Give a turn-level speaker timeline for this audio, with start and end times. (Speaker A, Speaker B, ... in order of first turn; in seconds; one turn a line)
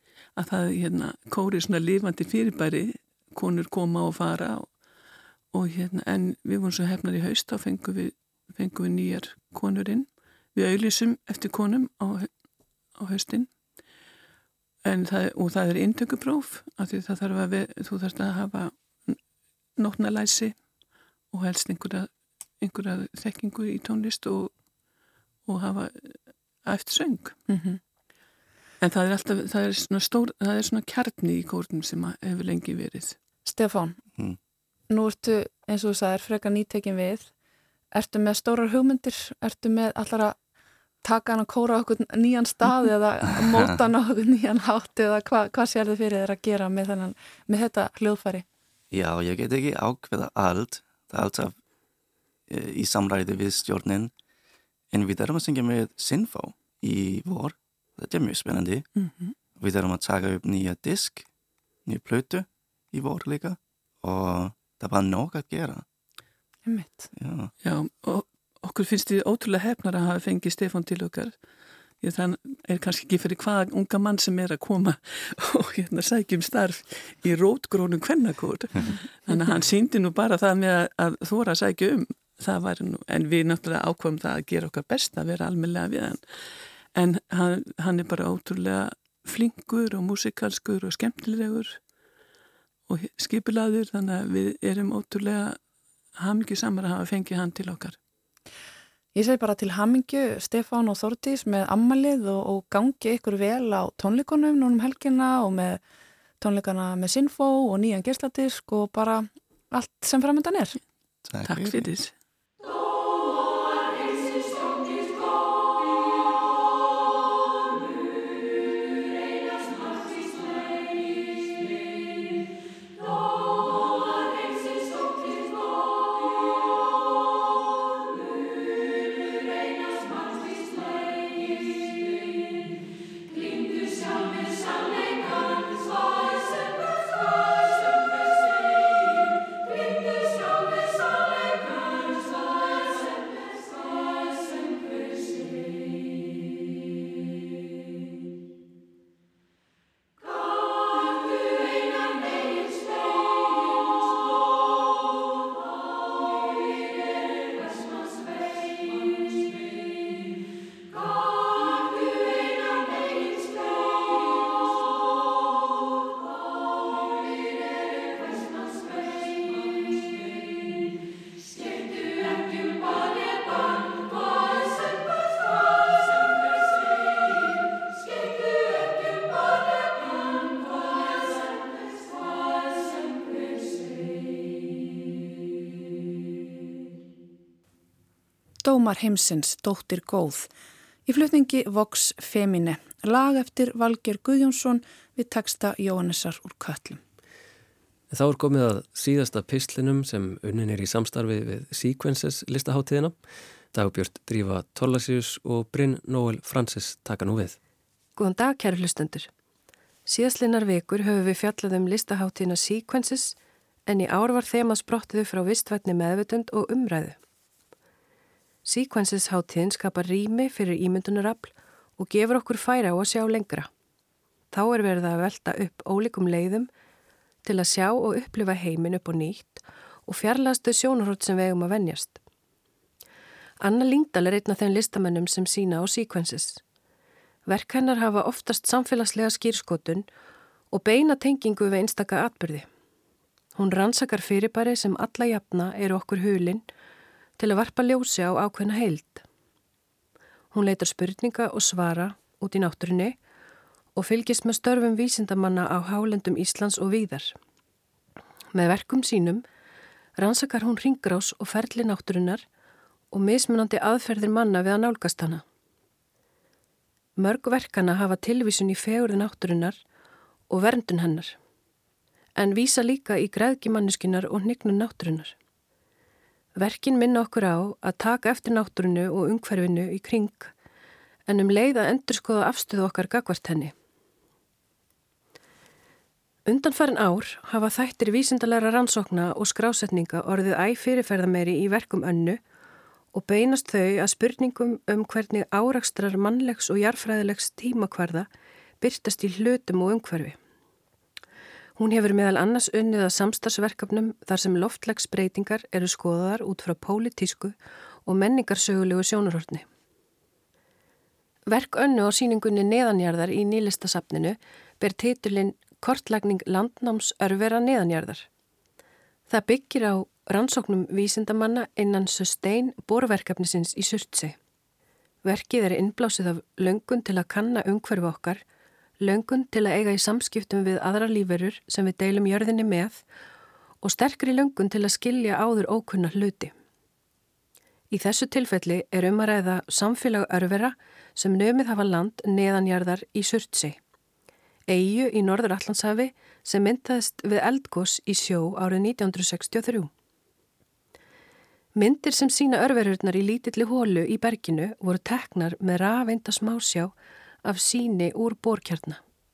Speaker A: 0.3-4.8
Speaker A: 5.5-12.3
Speaker A: 12.9-13.5
Speaker A: 14.8-19.2
Speaker A: 19.8-20.6
Speaker A: 21.3-24.5
Speaker A: 25.4-27.4
Speaker B: 27.5-27.8
Speaker A: 28.8-33.2
Speaker B: 33.5-34.0
Speaker B: 34.9-37.3
Speaker B: 37.9-40.4
Speaker B: 41.0-48.5
Speaker C: 48.9-51.5
Speaker C: 52.5-54.1
Speaker C: 54.9-58.9
Speaker A: 59.0-59.3
Speaker C: 59.6-61.2
Speaker C: 61.8-65.8
Speaker B: 66.7-67.1
Speaker C: 67.2-67.5
Speaker A: 67.6-71.4
Speaker A: 72.0-91.8
Speaker A: 92.9-95.6
Speaker A: 96.2-98.0
Speaker B: 99.1-105.8
Speaker B: 106.4-110.8
Speaker C: 111.2-111.9
Speaker A: 111.4-112.1
Speaker B: 188.6-190.5
Speaker B: 191.1-197.0
Speaker D: 198.1-203.2
Speaker D: 203.7-207.6
Speaker E: 208.2-209.3
Speaker E: 210.1-213.3
Speaker E: 213.9-217.2
Speaker E: 218.6-223.7
Speaker E: 224.5-226.7
Speaker E: 227.4-232.2
Speaker E: 233.6-236.6
Speaker E: 237.5-240.1
Speaker E: 240.7-242.7
Speaker E: 243.5-246.6
Speaker E: 247.4-249.2
Speaker E: 250.5-253.2
Speaker E: 253.9-257.3
Speaker E: 258.5-259.4
Speaker E: 260.2-262.4
Speaker E: 263.1-265.4
Speaker E: 267.2-269.8
Speaker E: 270.5-271.4
Speaker E: 272.4-275.3
Speaker E: 276.6-280.5
Speaker E: 281.3-283.7
Speaker E: 286.4-292.4
Speaker E: 293.1-298.3
Speaker E: 298.8-300.4
Speaker E: 301.8-309.6
Speaker E: 311.5-318.2
Speaker E: 319.3-324.4
Speaker E: 325.2-328.4
Speaker E: 329.0-333.0
Speaker E: 333.8-336.5
Speaker E: 337.9-343.8
Speaker E: 344.7-349.9
Speaker E: 351.7-356.9
Speaker E: 357.4-359.0